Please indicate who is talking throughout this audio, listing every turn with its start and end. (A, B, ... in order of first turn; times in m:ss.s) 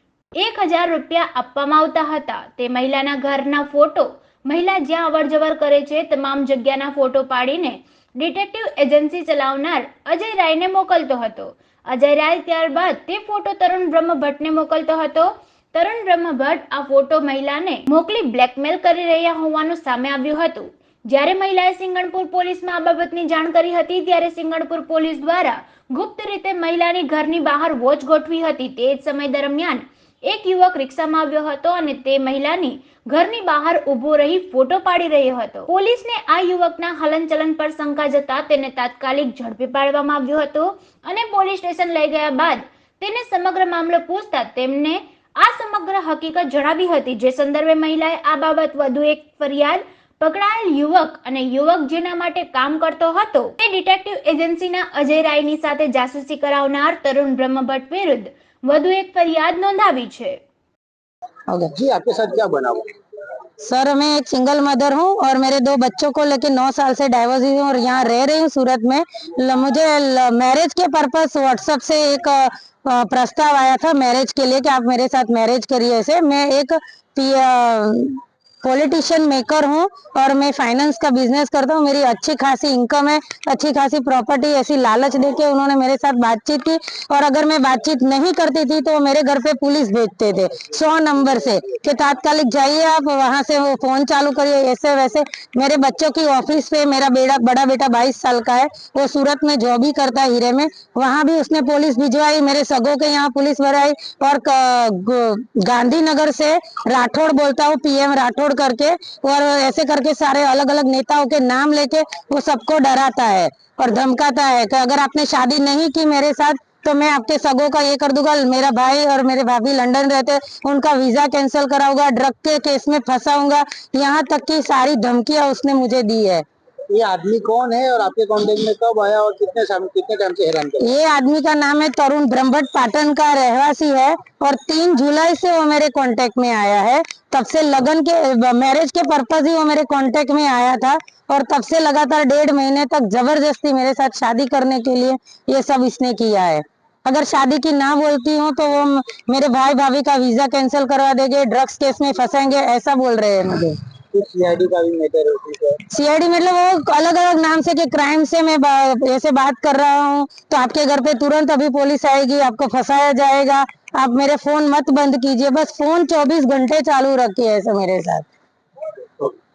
0:00.4-1:00.4 A
1:01.7-1:02.8 B
1:03.6-2:06.4 C
2:06.9-2:10.9 B
2:10.8-2:33.8 C
2:34.1-2:35.8 B
2:35.9-2:48.3 C